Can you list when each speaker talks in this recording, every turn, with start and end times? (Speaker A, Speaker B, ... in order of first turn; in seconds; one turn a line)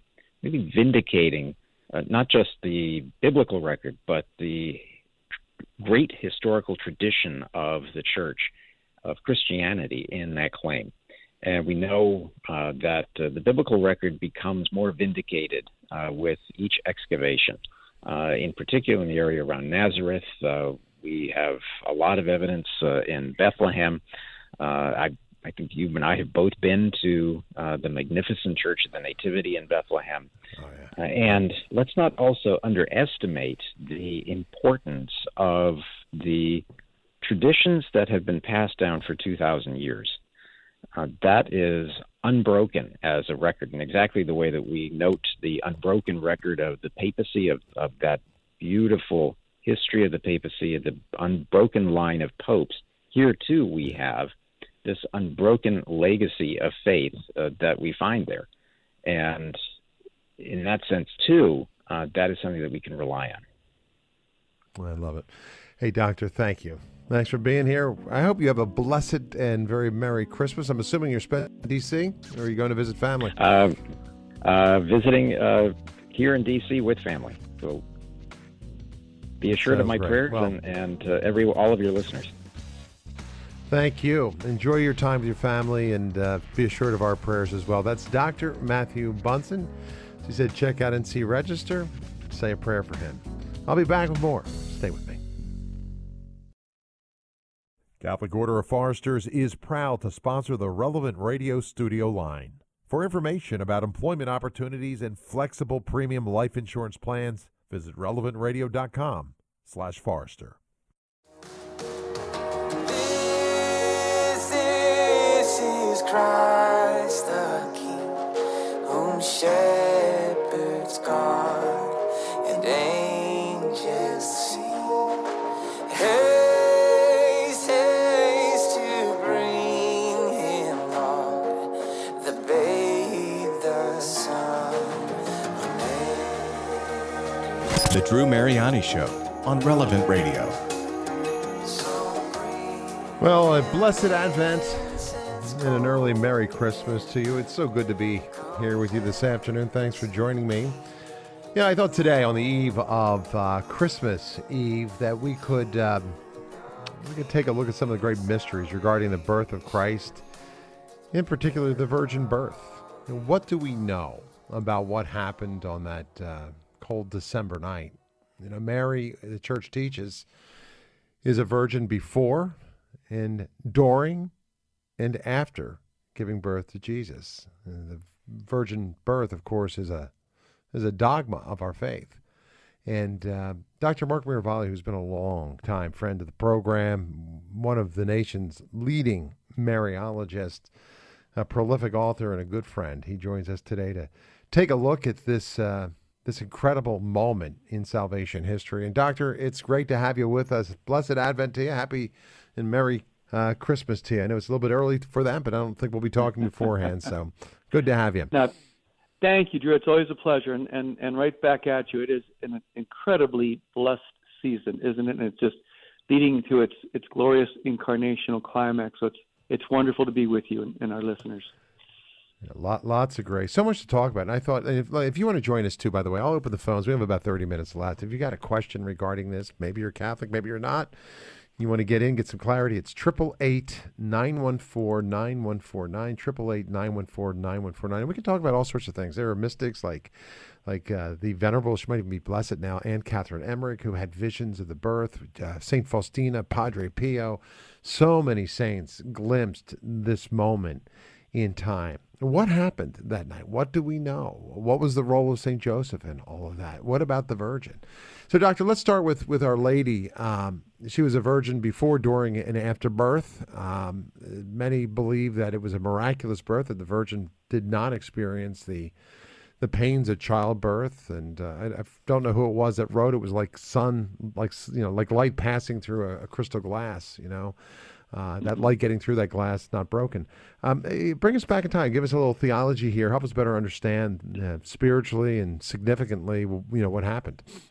Speaker A: 0.4-4.9
Speaker A: 5.8-8.5
Speaker A: 9.1-24.0
Speaker A: 24.6-30.3
Speaker B: 30.6-30.9
Speaker A: 31.0-36.6
Speaker A: 37.2-40.2
Speaker A: 41.0-54.3
Speaker A: 54.9-58.5
Speaker A: 59.0-59.6
Speaker A: 60.4-63.4
Speaker B: 64.8-73.3
Speaker A: 73.4-73.8
Speaker A: 74.4-77.8
Speaker A: 79.4-82.3
Speaker B: 79.6-80.6
Speaker B: 83.7-95.2
Speaker B: 98.0-110.6
Speaker C: 112.8-118.2
Speaker C: 118.8-125.2
Speaker C: 125.9-137.0
Speaker D: 137.9-140.6
Speaker C: 141.6-143.2
Speaker B: 143.2-150.8
Speaker B: 151.5-156.2
Speaker B: 156.8-160.3
Speaker B: 161.1-170.3
Speaker B: 171.2-172.6
Speaker B: 173.1-174.3
Speaker B: 175.0-180.1
Speaker B: 180.7-182.2
Speaker B: 182.8-190.7
Speaker B: 191.3-208.3
Speaker E: 209.2-221.5
Speaker B: 222.4-240.1
Speaker B: 240.7-268.9
Speaker B: 269.6-287.4